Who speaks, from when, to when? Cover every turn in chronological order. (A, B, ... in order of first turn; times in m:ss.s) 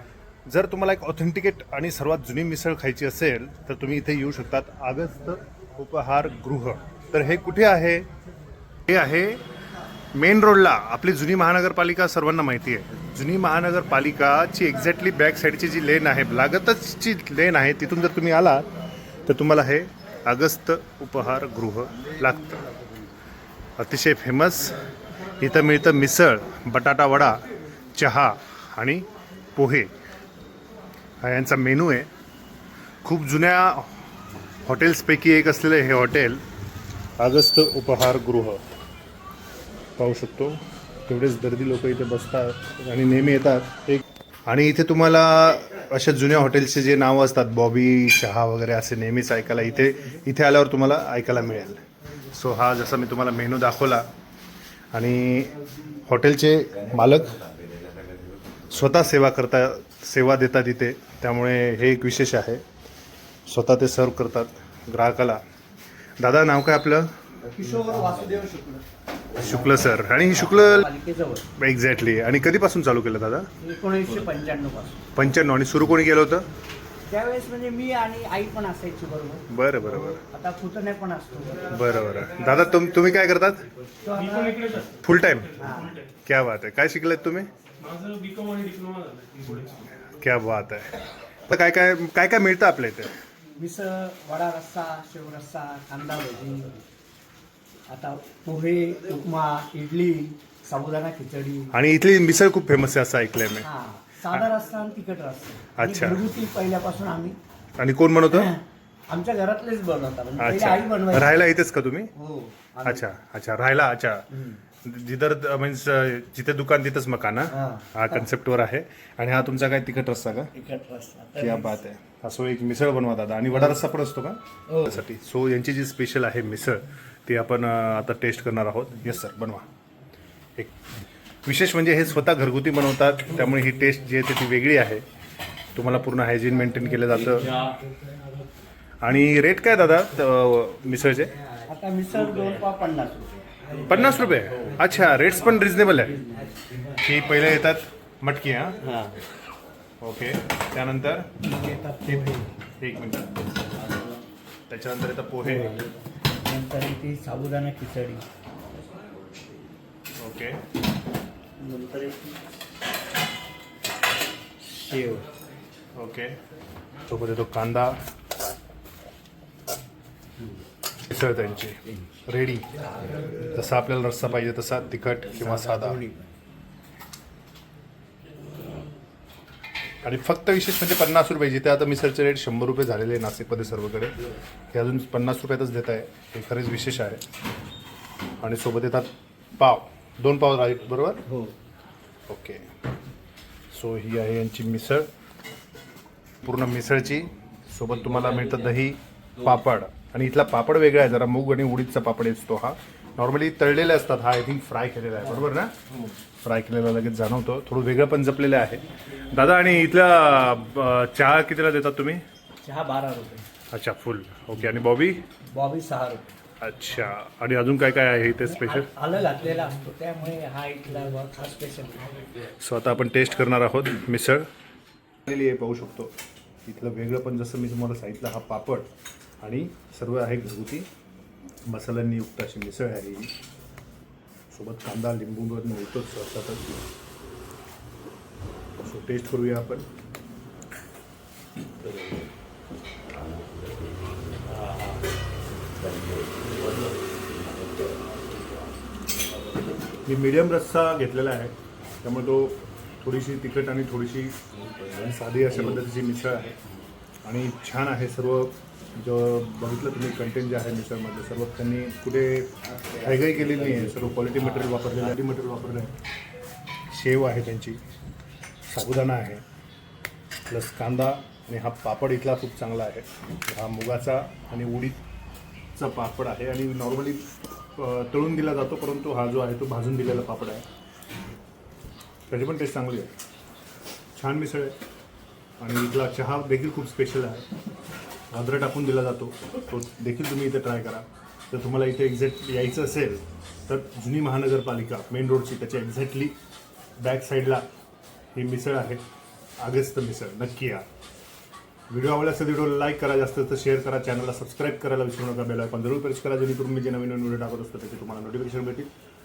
0:00.5-0:08.1 A
0:08.9-0:09.4 A
0:10.1-0:18.7 A
0:19.3-0:22.6 A
0:23.8-0:24.8 A
0:25.4-0:27.4 A
0:28.0-0:29.9 A
0:31.2-0:32.1 A
0:33.0-0:33.9 A
0:34.6-0:36.4 A
0:37.2-0:38.7 A
0:40.0-0:54.1 A
0:54.9-0:57.6 A
0:57.7-0:58.3 B
0:58.7-1:02.6 A
1:03.5-1:05.4 A
1:06.2-1:07.1 A
1:07.5-1:08.8 C
1:09.4-1:10.9 A
1:10.3-1:11.5 C
1:11.6-1:13.5 A
1:13.6-1:15.1 C
1:15.2-1:16.5 A
1:17.1-1:19.5 C
1:19.5-1:20.2 A
1:20.1-1:21.9 C
1:21.7-1:23.7 A
1:24.0-1:24.8 C
1:25.0-1:27.5 A
1:25.6-1:26.0 C
1:27.8-1:29.8 B
1:29.9-1:30.9 A
1:31.5-1:33.1 A
1:33.6-1:36.8 C
1:37.9-1:41.8 C
1:41.7-1:43.7 A
1:43.6-1:47.4 C
1:45.8-1:46.2 A
1:47.8-1:48.5 A
1:48.3-1:51.4 C
1:50.4-1:52.1 A
1:52.2-1:53.1 C
1:52.8-1:54.3 A
1:54.3-1:54.6 C
1:54.8-2:00.5 A
1:57.5-1:58.2 C
2:00.5-2:01.8 C
2:01.4-2:09.7 A
2:04.7-2:05.0 C
2:11.4-2:15.0 A
2:15.8-2:17.6 A
2:19.0-2:21.4 A
2:21.6-2:23.8 C
2:23.9-2:26.2 A
2:25.9-2:26.8 C
2:26.9-2:28.8 A
2:28.8-2:29.2 C
2:30.0-2:31.3 A
2:31.4-2:32.5 C
2:32.8-2:33.4 A
2:34.7-2:35.8 A
2:35.4-2:35.9 C
2:36.4-2:38.3 C
2:40.2-2:40.6 A
2:41.6-2:42.4 C
2:44.8-2:45.3 C
2:46.0-2:46.4 A
2:47.1-2:48.0 A
2:51.1-2:52.7 A
2:53.4-2:56.0 A
2:55.4-2:56.3 C
3:00.0-3:04.2 A
3:04.7-3:07.2 A
3:08.4-3:11.2 A
3:12.3-3:12.7 A
3:13.7-3:15.1 A
3:16.4-3:25.8 A
3:26.4-3:32.2 A
3:32.6-3:33.5 C
3:33.7-3:35.2 A
3:35.5-3:36.3 C
3:36.6-3:38.9 A
3:38.5-3:42.2 C
3:42.6-3:44.5 A
3:45.3-3:46.1 A
3:46.7-3:48.9 A
3:49.4-3:50.9 A
3:51.7-3:53.3 A
3:54.5-3:56.7 A
3:58.8-3:59.9 A
4:10.0-4:16.6 A
4:17.2-4:25.9 A
4:26.9-4:27.8 A
4:28.7-4:29.4 A
4:30.5-4:35.0 A
4:35.8-4:40.6 A
4:42.3-4:43.1 A
4:44.2-4:44.8 A
4:45.6-4:47.5 A
4:48.3-4:56.4 A
4:57.0-4:57.6 A
4:58.3-4:59.0 A
4:59.6-5:00.8 A
5:01.9-5:08.9 A